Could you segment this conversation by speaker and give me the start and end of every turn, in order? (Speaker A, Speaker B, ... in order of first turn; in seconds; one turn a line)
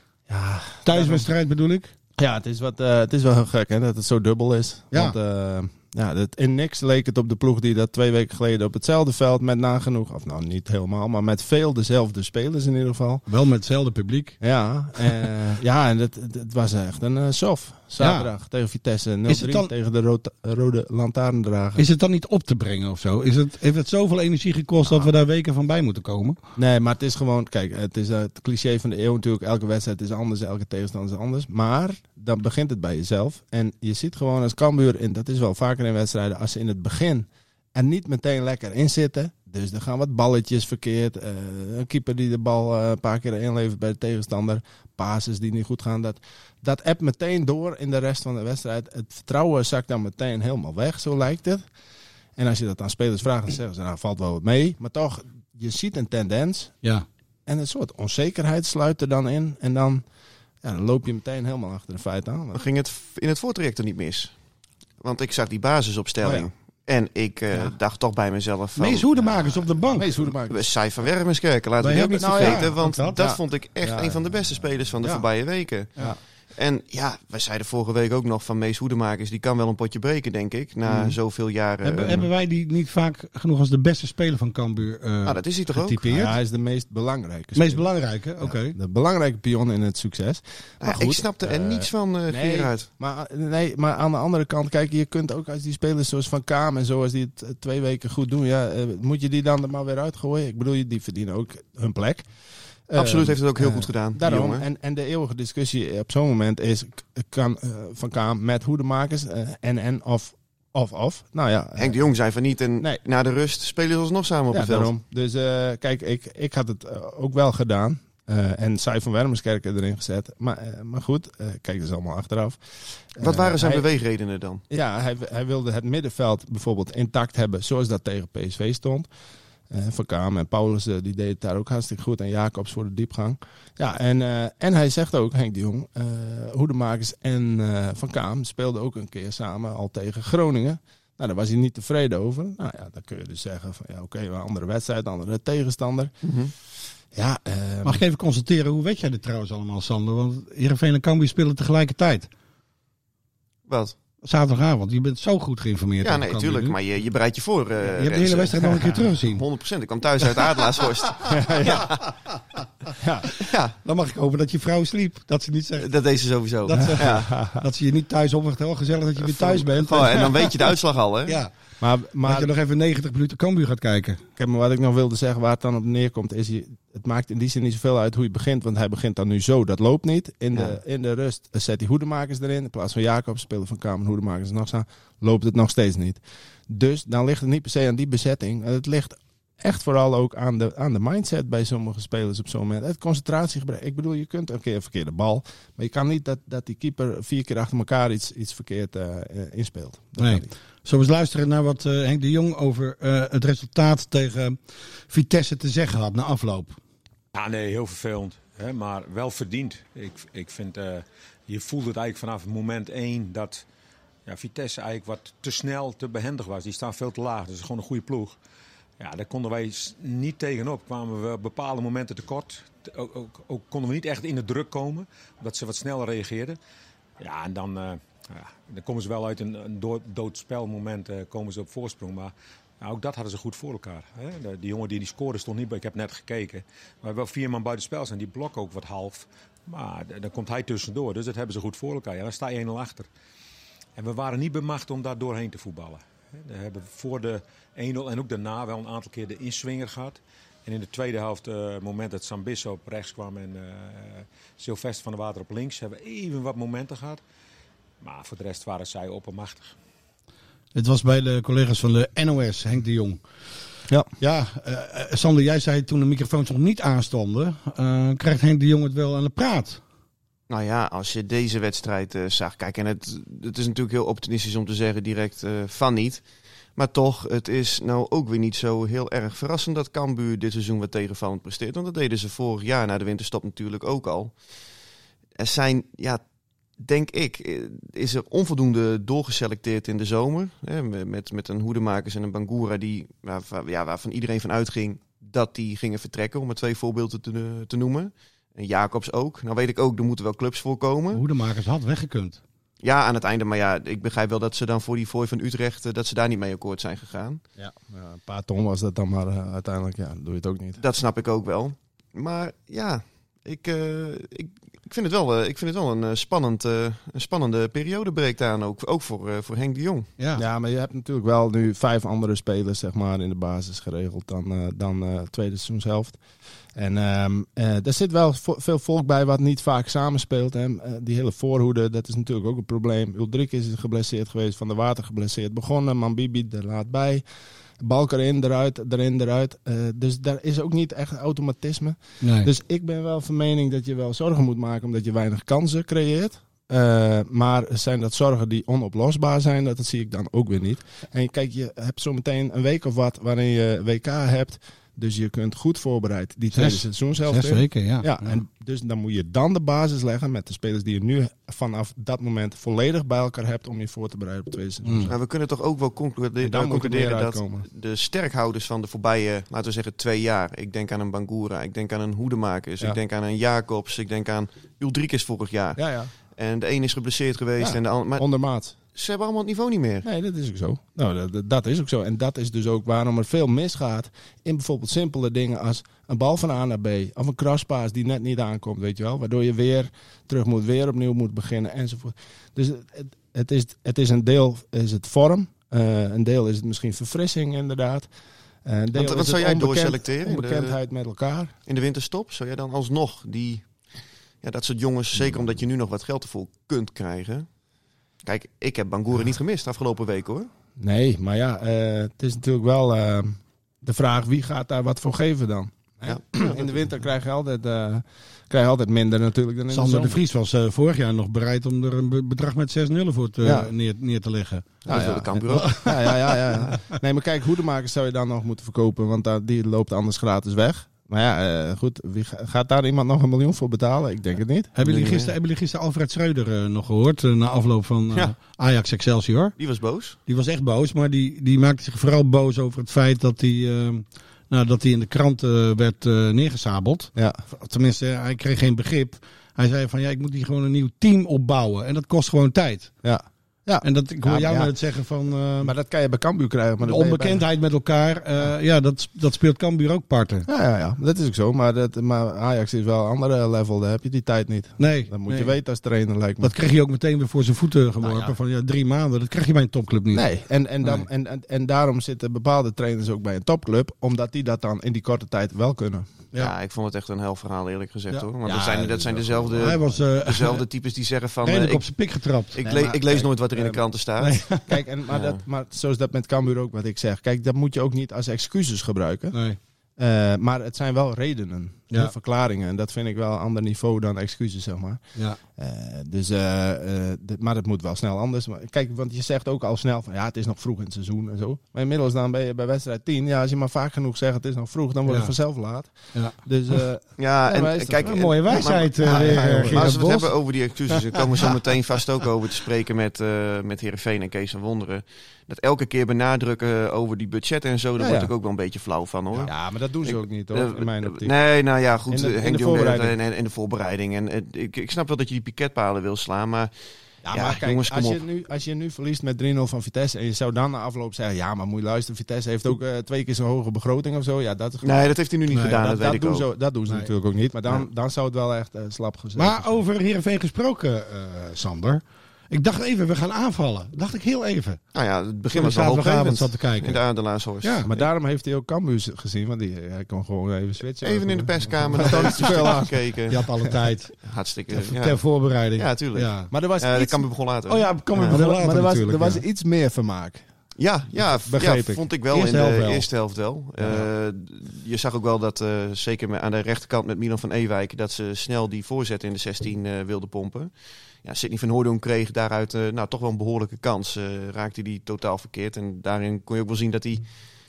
Speaker A: 0.3-1.3
Speaker B: 0.9-1.9
Speaker A: 2.2-13.2
Speaker B: 4.9-5.2
Speaker B: 13.3-14.4
Speaker A: 14.4-21.8
Speaker B: 18.0-18.3
Speaker B: 19.3-19.7
Speaker B: 21.8-26.4
Speaker A: 26.6-51.6
Speaker A: 52.4-56.8
Speaker A: 57.5-60.0
Speaker A: 60.6-62.7
Speaker C: 62.5-64.3
Speaker C: 65.0-69.6
Speaker B: 68.8-70.1
Speaker A: 69.9-70.7
Speaker C: 70.5-75.9
Speaker B: 71.8-73.2
Speaker A: 72.2-74.2
Speaker C: 76.5-82.3
Speaker A: 80.9-81.2
Speaker B: 81.8-86.3
Speaker C: 85.3-86.0
Speaker A: 86.1-87.8
Speaker B: 87.6-88.8
Speaker A: 88.4-102.3
Speaker C: 90.8-92.9
Speaker A: 102.9-112.0
Speaker C: 103.0-104.7
Speaker C: 111.8-114.9
Speaker A: 114.5-122.6
Speaker A: 123.2-123.8
Speaker C: 123.2-124.6
Speaker A: 124.7-129.1
Speaker A: 129.7-146.1
Speaker C: 146.2-146.5
Speaker A: 147.1-148.0
Speaker B: 147.8-152.3
Speaker C: 153.7-153.9
Speaker B: 154.2-156.8
Speaker C: 156.0-162.0
Speaker B: 157.8-159.4
Speaker A: 161.2-162.0
Speaker A: 163.0-163.3
Speaker C: 163.4-163.7
Speaker B: 163.8-165.9
Speaker C: 165.8-167.3
Speaker B: 166.6-170.5
Speaker A: 167.0-167.6
Speaker C: 169.2-171.4
Speaker A: 171.8-172.5
Speaker B: 172.2-174.2
Speaker A: 174.4-200.5
Speaker B: 200.2-204.6
Speaker B: 205.1-206.8
Speaker D: 207.3-213.7
Speaker D: 214.3-218.4
Speaker D: 219.0-226.6
Speaker D: 227.2-243.1
Speaker D: 244.0-257.2
Speaker D: 258.0-259.7
Speaker B: 260.8-263.2
Speaker B: 264.2-269.8
Speaker C: 270.5-276.2
Speaker C: 276.8-284.3
Speaker C: 285.4-286.2
Speaker C: 286.8-301.2
Speaker B: 301.1-302.4
Speaker C: 302.8-307.4
Speaker A: 307.6-310.8
Speaker C: 310.8-320.1
Speaker B: 320.2-320.4
Speaker A: 320.4-326.2
Speaker A: 326.8-337.2
Speaker A: 337.8-365.1
Speaker B: 342.2-342.5
Speaker B: 356.5-358.4
Speaker B: 364.9-365.1
Speaker C: 365.1-375.8
Speaker A: 366.4-367.7
Speaker A: 375.8-376.1
Speaker C: 376.4-378.3
Speaker A: 377.6-378.8
Speaker C: 378.9-380.1
Speaker A: 380.0-398.1
Speaker A: 398.6-401.5
Speaker C: 398.9-400.8
Speaker C: 401.7-403.7
Speaker C: 404.4-407.5
Speaker C: 408.2-410.5
Speaker A: 410.8-420.2
Speaker C: 416.1-416.8
Speaker B: 419.7-424.8
Speaker A: 423.4-423.7
Speaker C: 424.9-425.8
Speaker A: 424.9-434.8
Speaker B: 425.5-426.7
Speaker B: 434.8-439.5
Speaker C: 434.8-435.3
Speaker C: 439.6-440.2
Speaker B: 440.3-452.9
Speaker A: 447.2-447.4
Speaker A: 453.0-454.7
Speaker B: 453.8-455.7
Speaker A: 455.6-457.4
Speaker B: 456.9-460.5
Speaker A: 460.5-466.5
Speaker B: 464.8-465.5
Speaker B: 466.4-470.3
Speaker A: 468.1-468.3
Speaker A: 470.1-476.1
Speaker C: 476.4-481.9
Speaker A: 478.4-479.9
Speaker B: 479.6-480.6
Speaker B: 481.4-482.6
Speaker C: 482.5-484.4
Speaker A: 482.6-483.8
Speaker B: 484.2-484.7
Speaker A: 484.7-489.4
Speaker C: 485.1-485.4
Speaker B: 489.3-489.6
Speaker A: 490.0-495.0
Speaker A: 495.6-508.2
Speaker B: 505.1-505.3
Speaker C: 507.2-519.5
Speaker B: 508.0-510.3
Speaker A: 509.0-510.0
Speaker B: 511.1-511.5
Speaker A: 518.0-518.3
Speaker A: 519.3-521.3
Speaker C: 520.0-526.7
Speaker A: 522.1-523.2
Speaker A: 527.2-539.8
Speaker C: 527.3-528.2
Speaker C: 534.8-536.5
Speaker B: 535.5-535.8
Speaker B: 539.4-544.8
Speaker C: 544.9-548.1
Speaker B: 545.5-547.0
Speaker B: 547.6-547.9
Speaker A: 547.9-553.0
Speaker C: 551.0-553.4
Speaker B: 552.0-552.7
Speaker B: 553.3-554.2
Speaker C: 554.2-555.2
Speaker B: 554.7-556.5
Speaker C: 555.8-558.4
Speaker A: 556.5-557.3
Speaker B: 557.7-559.4
Speaker A: 558.2-560.5
Speaker C: 560.8-570.7
Speaker A: 561.2-562.0
Speaker B: 562.3-563.1
Speaker C: 571.2-577.2